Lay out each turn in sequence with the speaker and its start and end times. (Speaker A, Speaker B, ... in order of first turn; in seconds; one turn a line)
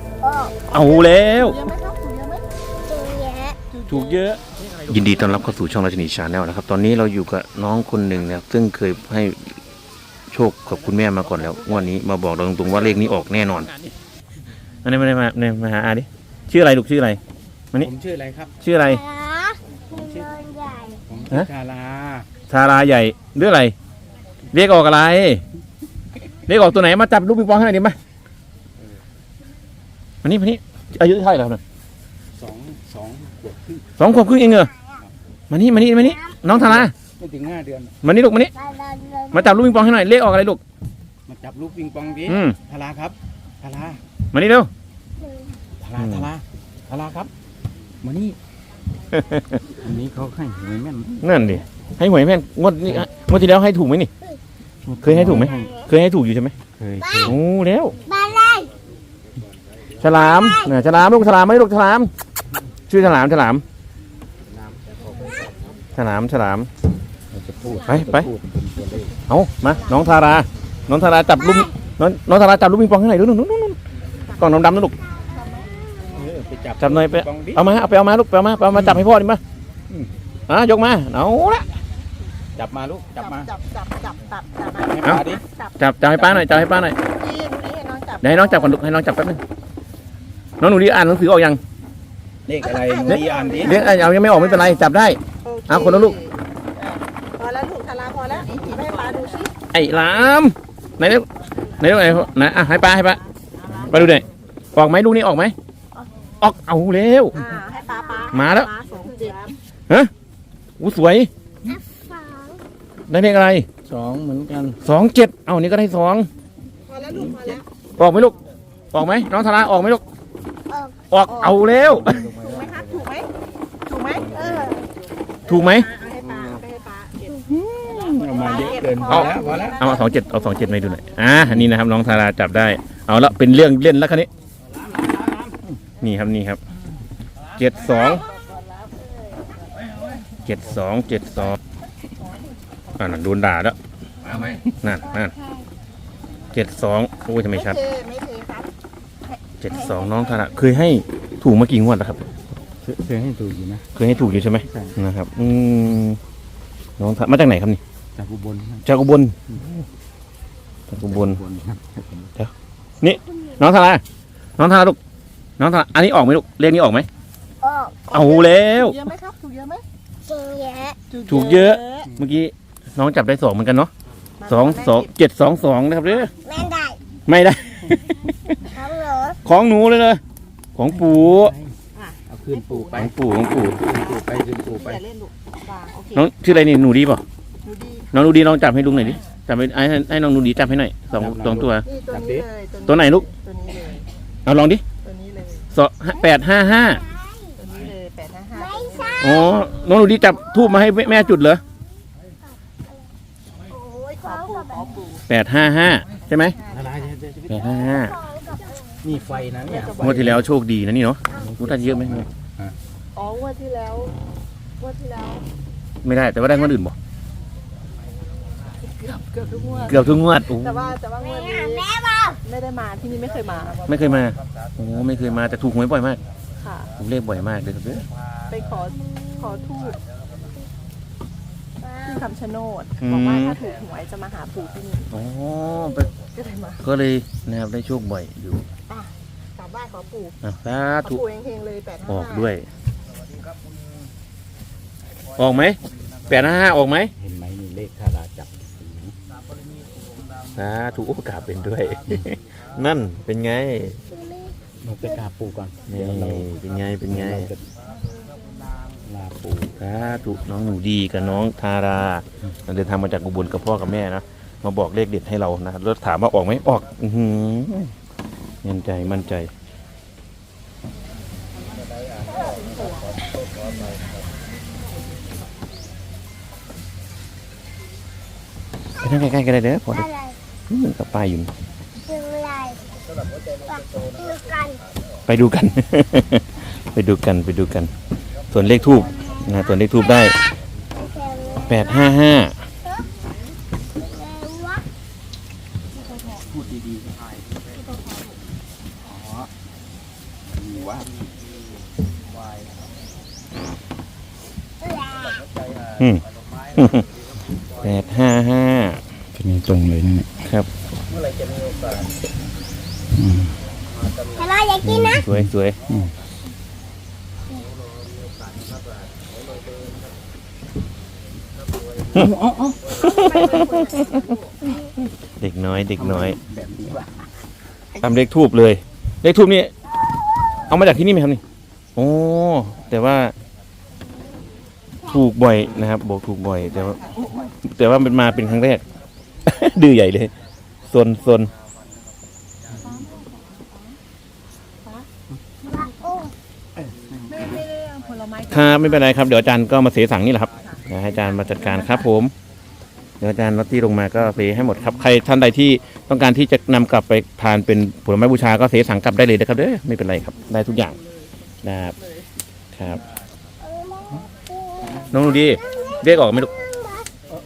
Speaker A: 0.2-1.1
Speaker B: 0.7-1.6
Speaker C: 1.2-2.5
Speaker A: 2.9-3.6
Speaker C: 3.7-4.3
Speaker B: 3.9-9.6
Speaker B: 10.3-13.7
Speaker B: 14.8-17.2
Speaker D: 17.8-18.5
Speaker B: 18.6-19.0
Speaker A: 18.9-21.0
Speaker D: 19.9-20.3
Speaker D: 21.1-22.3
Speaker B: 22.5-23.7
Speaker B: 24.5-25.4
Speaker B: 26.5-28.0
Speaker B: 30.2-31.6
Speaker D: 32.4-33.9
Speaker B: 34.0-34.7
Speaker B: 35.5-36.9
Speaker D: 36.5-38.0
Speaker B: 38.0-38.5
Speaker A: 38.6-39.6
Speaker B: 39.3-40.6
Speaker D: 41.3-44.0
Speaker B: 42.3-42.6
Speaker B: 44.3-44.7
Speaker A: 45.2-45.5
Speaker D: 45.8-47.3
Speaker B: 46.0-46.3
Speaker D: 48.0-48.4
Speaker B: 49.1-49.6
Speaker D: 49.7-51.4
Speaker B: 51.2-54.1
Speaker D: 54.9-55.8
Speaker B: 55.0-56.5
Speaker A: 55.5-55.8
Speaker D: 56.8-57.4
Speaker B: 57.2-58.0
Speaker A: 58.1-58.7
Speaker B: 60.0-62.1
Speaker A: 60.1-60.8
Speaker B: 62.9-63.6
Speaker A: 65.2-65.5
Speaker B: 66.0-66.7
Speaker D: 67.3-69.2
Speaker B: 67.8-68.3
Speaker B: 69.3-73.8
Speaker A: 71.4-71.7
Speaker B: 74.4-74.9
Speaker C: 75.3-75.7
Speaker D: 76.1-77.7
Speaker B: 76.8-79.4
Speaker B: 80.5-81.7
Speaker D: 82.6-83.5
Speaker C: 83.2-85.8
Speaker D: 84.8-85.4
Speaker B: 85.8-87.0
Speaker D: 86.2-86.7
Speaker C: 87.0-88.8
Speaker B: 88.2-89.4
Speaker B: 90.6-91.6
Speaker D: 92.5-93.9
Speaker C: 92.6-94.8
Speaker B: 93.0-96.2
Speaker C: 95.4-99.5
Speaker B: 99.7-103.2
Speaker B: 103.8-105.5
Speaker B: 106.4-107.4
Speaker C: 107.3-109.5
Speaker A: 107.9-108.3
Speaker B: 108.3-108.7
Speaker B: 110.8-111.3
Speaker A: 111.7-112.6
Speaker B: 113.1-113.7
Speaker D: 113.9-114.8
Speaker B: 114.8-116.3
Speaker C: 116.9-117.7
Speaker B: 118.0-118.4
Speaker B: 118.9-120.0
Speaker A: 120.7-121.0
Speaker B: 121.1-122.4
Speaker C: 121.3-124.8
Speaker D: 121.9-123.0
Speaker D: 124.2-124.8
Speaker B: 125.5-125.9
Speaker C: 125.5-127.5
Speaker D: 127.5-129.9
Speaker C: 128.2-130.7
Speaker B: 129.1-134.3
Speaker D: 134.9-135.7
Speaker B: 136.0-136.6
Speaker B: 137.6-138.3
Speaker A: 138.1-138.4
Speaker B: 140.4-141.6
Speaker B: 143.0-143.8
Speaker B: 144.8-145.3
Speaker A: 145.2-145.7
Speaker B: 146.5-147.8
Speaker C: 147.6-148.7
Speaker C: 149.3-150.2
Speaker B: 149.6-152.2
Speaker D: 152.8-155.0
Speaker B: 153.9-156.2
Speaker B: 157.0-157.8
Speaker D: 158.2-158.8
Speaker B: 158.8-159.8
Speaker B: 160.9-161.4
Speaker D: 161.1-162.3
Speaker B: 162.4-164.0
Speaker B: 164.6-165.0
Speaker B: 165.6-167.1
Speaker A: 167.6-168.4
Speaker B: 168.1-169.0
Speaker C: 168.5-169.8
Speaker A: 170.2-171.0
Speaker C: 171.1-172.1
Speaker B: 171.3-173.9
Speaker C: 174.4-175.1
Speaker B: 174.5-176.3
Speaker A: 176.4-177.0
Speaker B: 177.3-178.6
Speaker A: 178.7-179.4
Speaker B: 179.4-180.2
Speaker B: 180.8-181.5
Speaker D: 180.8-181.8
Speaker C: 181.9-183.1
Speaker D: 182.3-185.0
Speaker B: 183.0-183.8
Speaker C: 183.9-186.3
Speaker B: 186.1-187.2
Speaker C: 187.6-188.8
Speaker B: 188.1-191.8
Speaker D: 191.1-192.5
Speaker C: 191.9-194.1
Speaker B: 192.9-193.3
Speaker B: 194.5-194.8
Speaker C: 195.0-195.7
Speaker B: 195.7-197.0
Speaker A: 196.9-197.6
Speaker C: 197.6-199.4
Speaker A: 198.6-201.1
Speaker B: 199.2-201.6
Speaker A: 203.8-205.0
Speaker C: 203.8-205.2
Speaker B: 205.3-206.6
Speaker C: 206.5-207.0
Speaker D: 206.7-207.7
Speaker B: 207.5-208.2
Speaker A: 207.6-209.0
Speaker D: 209.0-210.5
Speaker C: 209.7-210.2
Speaker B: 210.0-212.3
Speaker D: 211.4-212.8
Speaker C: 213.2-214.2
Speaker C: 214.8-215.5
Speaker B: 216.0-216.9
Speaker C: 218.9-221.9
Speaker B: 219.7-221.0
Speaker A: 221.2-222.4
Speaker C: 222.4-223.9
Speaker B: 223.9-226.2
Speaker C: 226.6-226.9
Speaker B: 227.0-228.1
Speaker C: 228.5-230.0
Speaker A: 229.0-229.7
Speaker A: 231.8-232.3
Speaker C: 232.0-235.1
Speaker B: 233.0-233.6
Speaker B: 235.1-236.1
Speaker C: 236.3-236.8
Speaker B: 236.8-238.7
Speaker C: 238.9-240.3
Speaker B: 240.4-241.2
Speaker C: 241.0-242.5
Speaker B: 242.1-242.7
Speaker B: 245.4-247.1
Speaker D: 247.2-249.2
Speaker B: 250.6-254.0
Speaker A: 254.1-254.6
Speaker D: 254.8-257.7
Speaker B: 255.9-257.5
Speaker D: 259.1-259.7
Speaker B: 259.6-267.9
Speaker B: 268.6-269.5
Speaker C: 272.3-273.2
Speaker B: 279.0-280.1
Speaker A: 279.9-280.4
Speaker B: 280.7-281.5
Speaker A: 282.1-282.8
Speaker A: 283.5-284.8
Speaker B: 285.3-287.9
Speaker B: 288.5-290.4
Speaker A: 289.0-290.5
Speaker A: 291.0-292.1
Speaker B: 291.6-292.6
Speaker A: 294.0-294.9
Speaker D: 296.3-297.1
Speaker D: 299.1-299.5
Speaker D: 300.5-301.2
Speaker A: 304.8-305.4
Speaker B: 306.0-306.2
Speaker B: 306.7-307.1
Speaker B: 307.8-309.0
Speaker D: 309.3-310.4
Speaker B: 310.4-310.7
Speaker D: 311.4-311.9
Speaker D: 313.1-313.6
Speaker A: 314.2-315.3
Speaker B: 314.8-315.8
Speaker D: 315.2-316.1
Speaker D: 322.1-323.0
Speaker B: 323.0-324.1
Speaker C: 323.1-324.3
Speaker B: 325.4-326.4
Speaker D: 325.9-327.3
Speaker B: 328.0-329.7
Speaker B: 330.7-331.4
Speaker B: 332.0-333.3
Speaker B: 335.1-337.0
Speaker B: 337.6-338.8
Speaker B: 339.4-340.3
Speaker B: 340.9-341.5
Speaker C: 342.9-343.8
Speaker A: 345.7-346.3
Speaker D: 346.8-347.6
Speaker C: 347.3-349.1
Speaker B: 348.5-352.3
Speaker C: 350.7-352.1
Speaker B: 353.2-361.0
Speaker B: 361.6-362.0
Speaker B: 362.7-363.0
Speaker A: 363.6-367.1
Speaker B: 365.1-366.5